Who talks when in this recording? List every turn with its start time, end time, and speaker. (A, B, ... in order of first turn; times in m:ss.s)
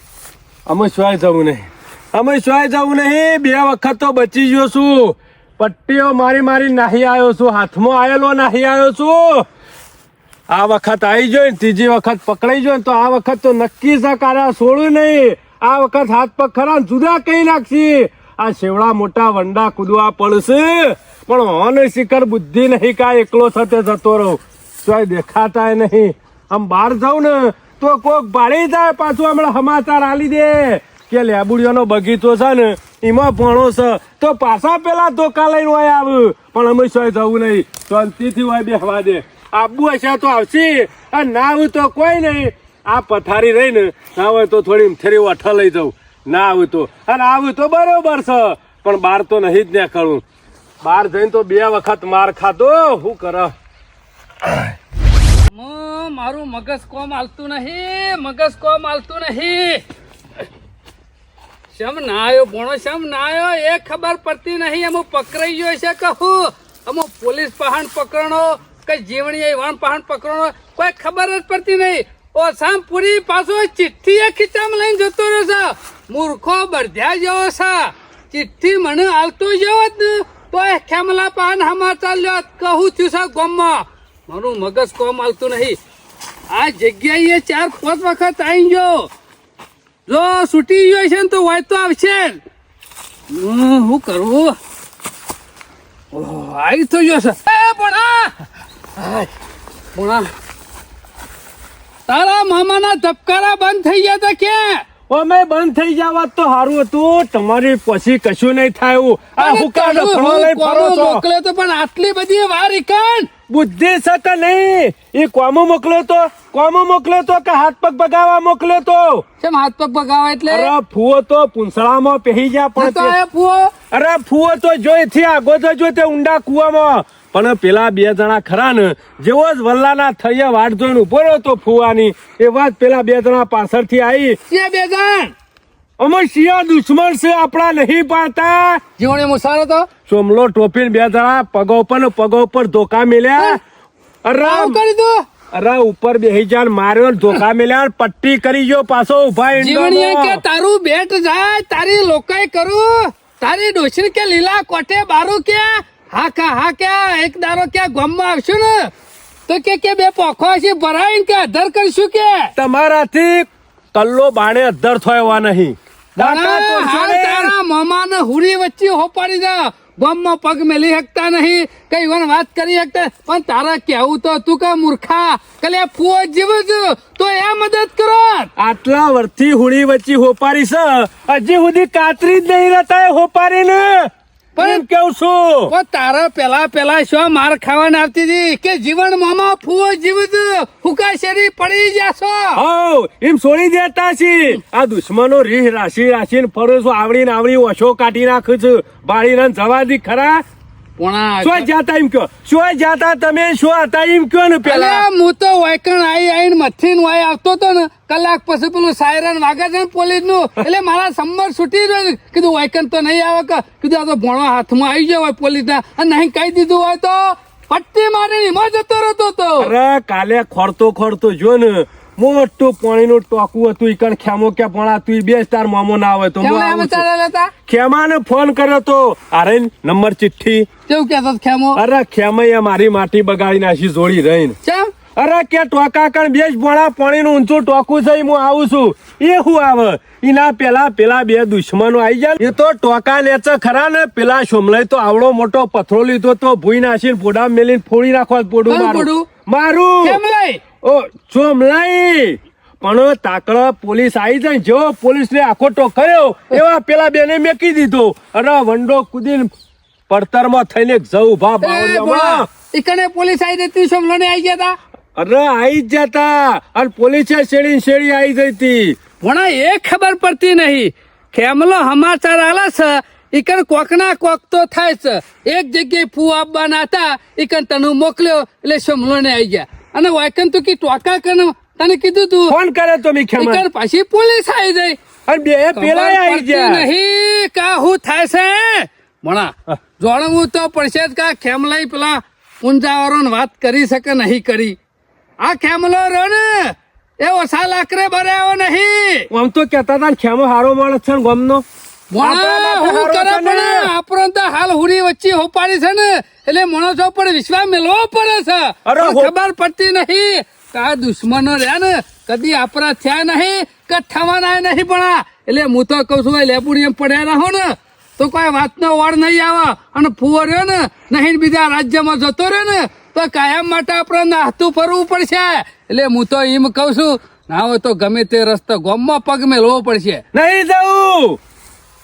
0:00.6-0:09.4 A
0:10.5-0:50.2 A
0:50.8-0:53.5 A
0:55.5-0:59.8 B
1:01.7-1:25.8 B
1:26.5-1:29.1 B
1:30.1-1:32.4 B
1:33.3-1:34.6 B
1:36.1-1:38.3 B
1:39.9-1:40.3 B
1:42.1-1:44.8 B
1:45.1-1:51.2 A
1:49.4-1:53.3 B
1:53.5-1:59.2 A
1:59.4-2:00.7 B
2:00.5-2:03.2 A
2:02.8-2:03.7 B
2:03.9-2:14.4 A
2:14.5-2:15.3 B
2:16.0-2:18.8 A
2:19.0-2:19.9 B
2:20.0-2:23.6 A
2:24.2-2:24.8 A
2:24.4-2:25.2 B
2:25.5-2:30.4 A
2:29.5-2:38.9 B
2:39.5-2:42.5 B
2:42.6-2:47.5 A
2:46.2-2:58.5 B
2:58.6-3:05.7 A
3:04.6-3:04.8 B
3:05.7-3:12.6 B
3:12.6-3:20.4 A
3:21.0-3:21.7 B
3:21.4-3:25.0 A
3:24.6-3:39.7 B
3:39.6-3:47.0 A
3:46.4-3:47.5 B
3:47.7-3:50.7 A
3:50.9-3:51.8 B
3:51.7-3:54.6 A
3:54.6-3:54.9 B
3:55.1-4:10.2 A
4:08.7-4:09.3 B
4:10.0-4:10.6 B
4:10.8-4:19.5 A
4:20.1-4:22.5 A
4:21.6-4:24.8 B
4:25.2-4:29.0 A
4:29.2-4:42.5 B
4:42.5-4:43.6 A
4:43.3-4:45.0 B
4:45.2-4:46.9 A
4:45.7-4:54.8 B
4:55.4-4:59.3 B
4:59.3-5:01.6 A
5:02.1-5:30.2 B
5:02.2-5:03.9 A
5:08.8-5:09.3 A
5:30.3-5:31.4 A